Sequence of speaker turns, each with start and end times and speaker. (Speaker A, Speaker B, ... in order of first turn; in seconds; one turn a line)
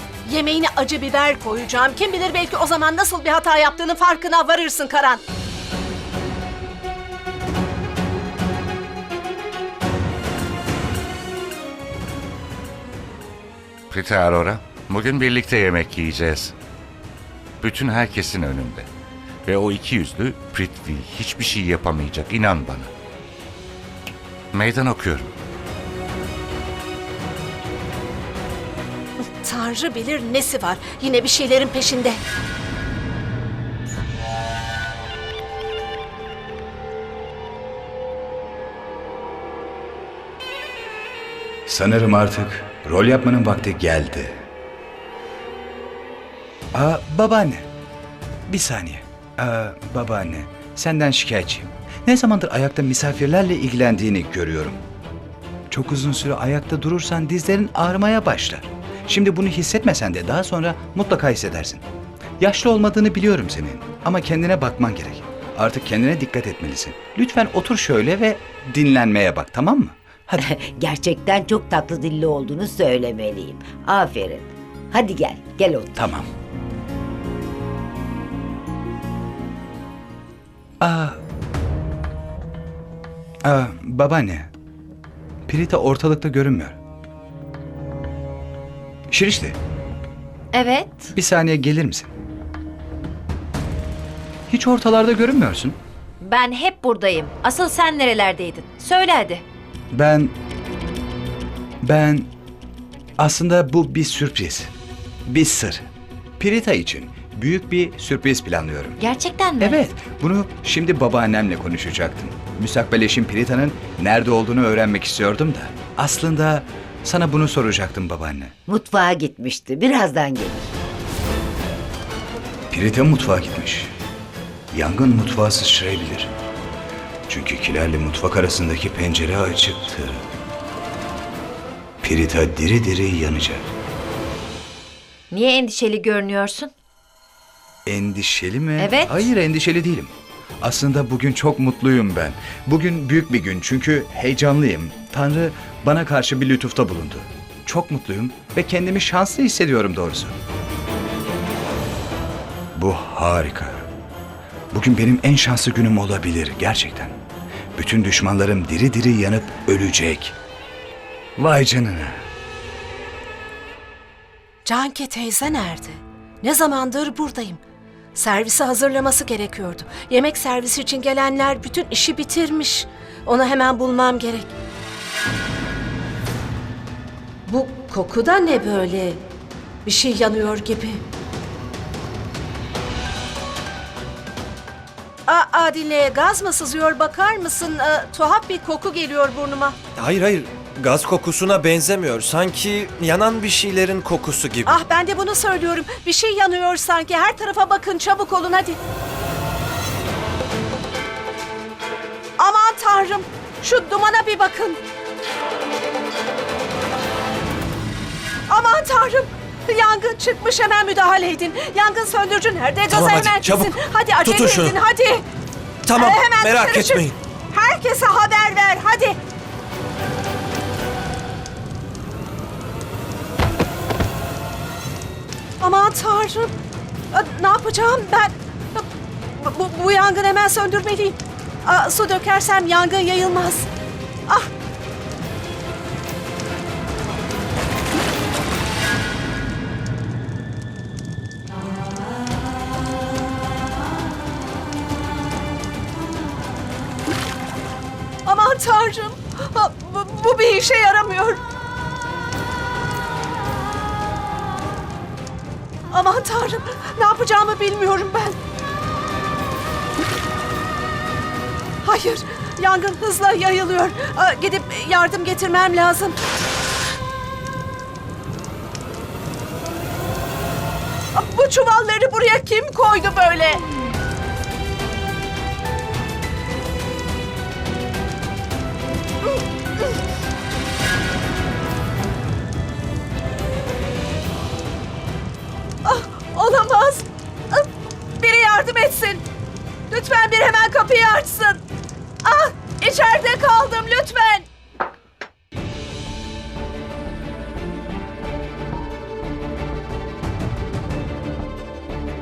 Speaker A: 0.2-5.2
Speaker B: 13.9-16.5
Speaker B: 17.6-18.9
Speaker B: 19.4-22.9
Speaker B: 24.5-25.3
Speaker A: 29.4-32.2
Speaker C: 41.7-44.3
Speaker C: 46.7-47.7
Speaker C: 48.5-54.8
Speaker C: 55.7-61.8
Speaker C: 62.4-70.6
Speaker D: 70.4-76.1
Speaker C: 75.9-76.3
Speaker C: 80.8-81.2
Speaker C: 83.4-84.5
Speaker C: 85.5-86.8
Speaker C: 89.1-89.5
Speaker E: 90.5-91.1
Speaker C: 91.1-92.1
Speaker C: 94.5-95.8
Speaker E: 96.2-99.4
Speaker C: 99.9-100.3
Speaker C: 101.8-102.3
Speaker C: 103.2-104.7
Speaker C: 105.3-105.8
Speaker C: 106.4-109.0
Speaker E: 109.0-109.8
Speaker C: 109.6-118.5
Speaker D: 118.7-120.7
Speaker C: 122.7-123.9
Speaker C: 124.7-126.3
Speaker C: 127.3-130.2
Speaker C: 132.0-133.7
Speaker E: 135.3-136.7
Speaker C: 137.8-150.3
Speaker E: 138.8-139.3
Speaker C: 152.8-153.9
Speaker C: 154.7-157.2
Speaker C: 157.8-160.3
Speaker C: 161.4-162.2
Speaker A: 164.6-167.6
Speaker A: 168.1-174.5
Speaker A: 177.5-179.2
Speaker A: 179.8-181.0
Speaker A: 185.3-189.8
Speaker F: 190.0-194.7
Speaker A: 194.7-198.8
Speaker A: 202.4-204.8
Speaker A: 208.5-215.2
Speaker F: 212.9-213.7
Speaker F: 214.2-214.8
Speaker F: 215.8-217.1
Speaker A: 215.9-219.2
Speaker A: 225.6-226.5
Speaker A: 227.1-233.7
Speaker A: 248.2-251.4
Speaker A: 255.9-258.4
Speaker A: 261.8-266.2
Speaker A: 271.1-273.6
Speaker A: 285.8-287.7
Speaker A: 288.2-289.2
Speaker A: 289.9-291.6
Speaker A: 292.2-294.5